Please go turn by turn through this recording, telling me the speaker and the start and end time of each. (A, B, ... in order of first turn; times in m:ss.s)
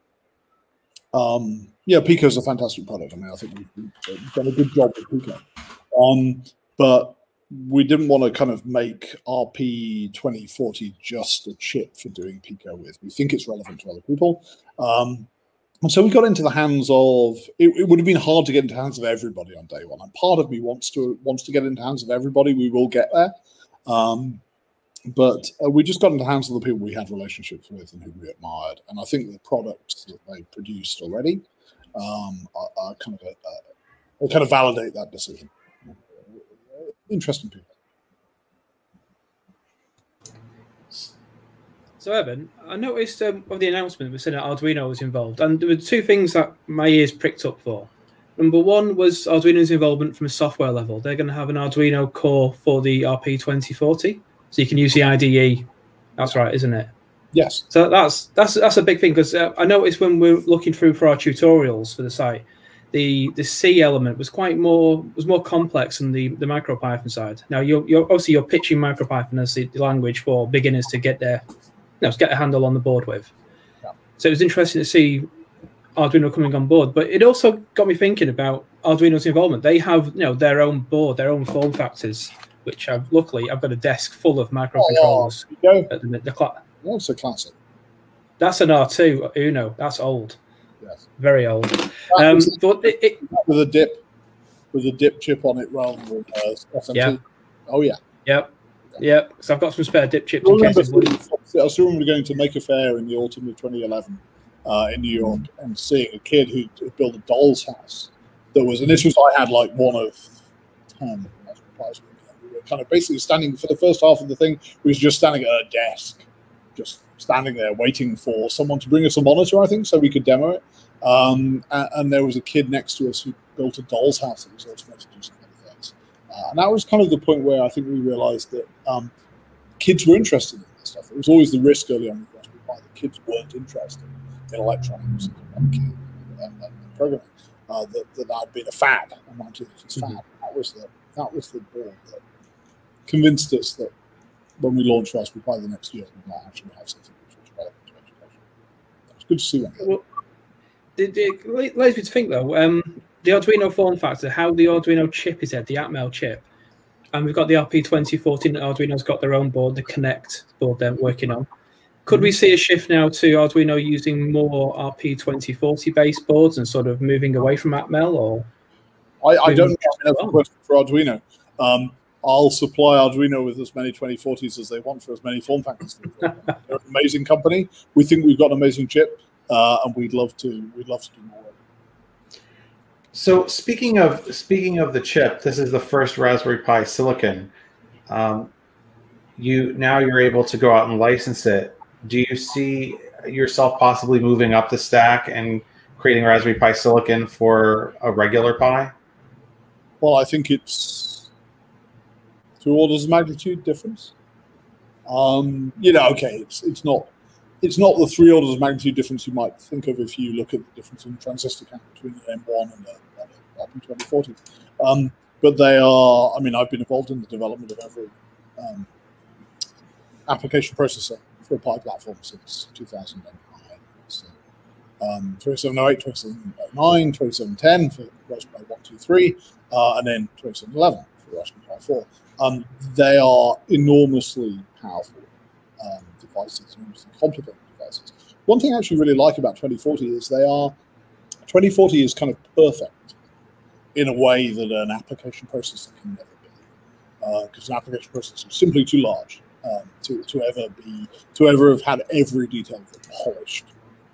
0:01.1-0:15.3 A
0:15.8-0:23.3 A
0:23.9-0:24.4 A
0:25.1-0:31.4 A
0:31.9-0:33.6 A
0:34.2-0:37.7 A
0:42.0-0:56.9 B
0:57.3-0:57.6 A
0:57.7-1:11.4 B
1:12.0-1:13.3 B
1:14.2-1:15.3 B
1:16.0-1:26.6 B
1:24.8-1:25.9 A
1:26.8-1:27.5 A
1:28.4-1:30.4 B
1:31.2-1:33.2 B
1:32.1-1:34.0 A
1:34.7-1:38.0 A
1:38.2-1:41.1 B
1:40.4-1:50.3 A
1:51.0-2:09.1 A
2:09.8-2:22.2 A
2:23.1-2:23.9 A
2:24.6-2:28.4 A
2:29.2-2:30.0 A
2:31.0-2:36.4 B
2:37.1-2:41.5 B
2:42.0-2:48.5 B
2:49.2-3:01.6 A
2:49.4-2:50.2 B
3:03.1-3:07.5 C
3:08.1-3:08.5 C
3:09.4-3:18.9 C
3:20.0-3:21.3 A
3:22.6-3:24.1 A
3:25.1-3:27.1 A
3:27.6-3:38.9 A
3:40.3-3:44.3 A
3:45.0-4:00.7 A
4:01.5-4:03.1 A
4:03.9-4:06.6 A
4:07.2-4:13.7 A